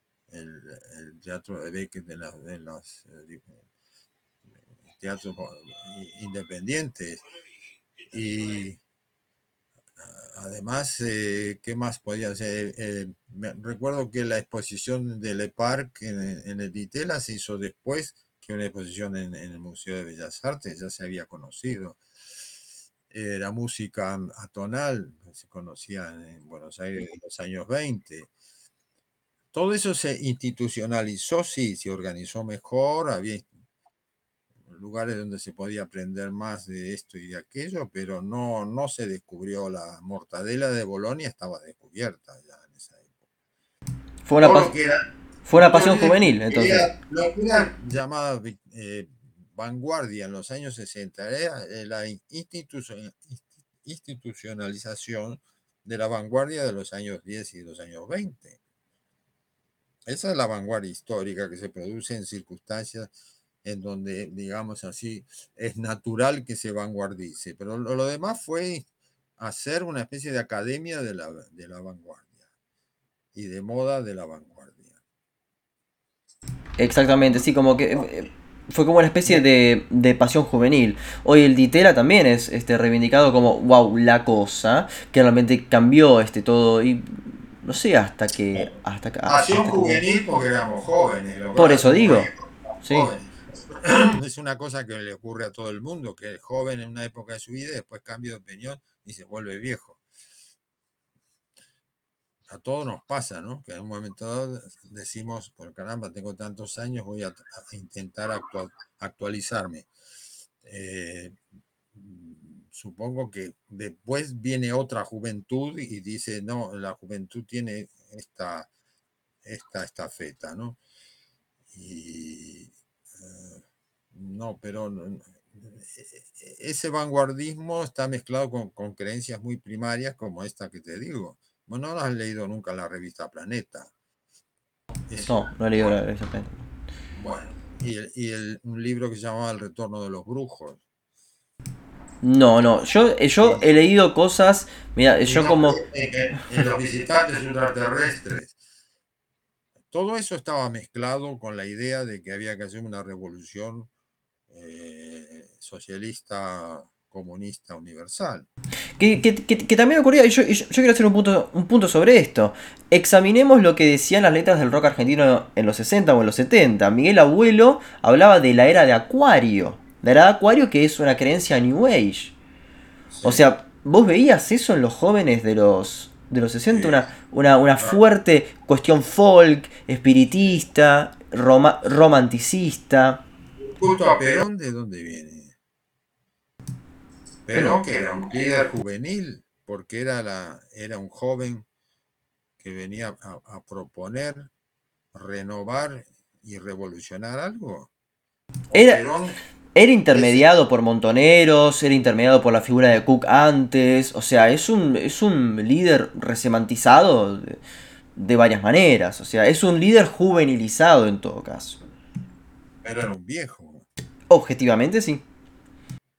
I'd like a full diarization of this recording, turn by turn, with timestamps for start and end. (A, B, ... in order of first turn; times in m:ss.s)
0:00.3-0:03.6 A
0:04.9-0:07.2 A
0:08.1-0:08.8 A
0:10.0-0:22.0 A
0:23.1-0:28.3 A
0:29.5-0:33.5 A
0:34.6-0:43.2 A
0:44.2-0:44.7 B
0:44.4-0:45.0 A
0:45.4-0:46.9 B
0:45.5-0:58.6 A
1:00.1-1:03.1 A
1:03.6-1:08.8 A
1:09.4-1:12.4 A
1:13.3-1:15.0 A
1:16.8-1:30.0 B
1:29.2-1:40.0 A
1:31.6-1:32.3 B
1:32.8-1:33.1 B
1:42.5-1:49.9 A
1:50.6-1:51.4 A
1:51.9-1:58.7 A
1:59.4-2:00.8 A
2:01.7-2:13.9 A
2:15.1-2:15.9 A
2:15.2-2:16.6 B
2:17.1-2:20.8 A
2:22.2-2:25.8 B
2:25.2-2:28.6 A
2:29.9-2:33.9 A
2:34.5-2:38.5 A
2:39.0-2:52.3 B
2:53.1-2:53.4 A
2:53.2-3:03.2 B
2:56.7-2:57.0 A
3:03.7-3:05.6 A
3:07.5-3:11.6 A
3:07.5-3:07.8 B
3:12.6-3:14.5 A
3:15.1-3:17.9 A
3:18.7-3:19.4 A
3:18.7-3:19.0 B
3:19.7-3:27.6 B
3:20.1-3:20.4 A
3:28.2-3:31.8 B
3:32.8-3:33.8 A
3:34.3-3:35.2 B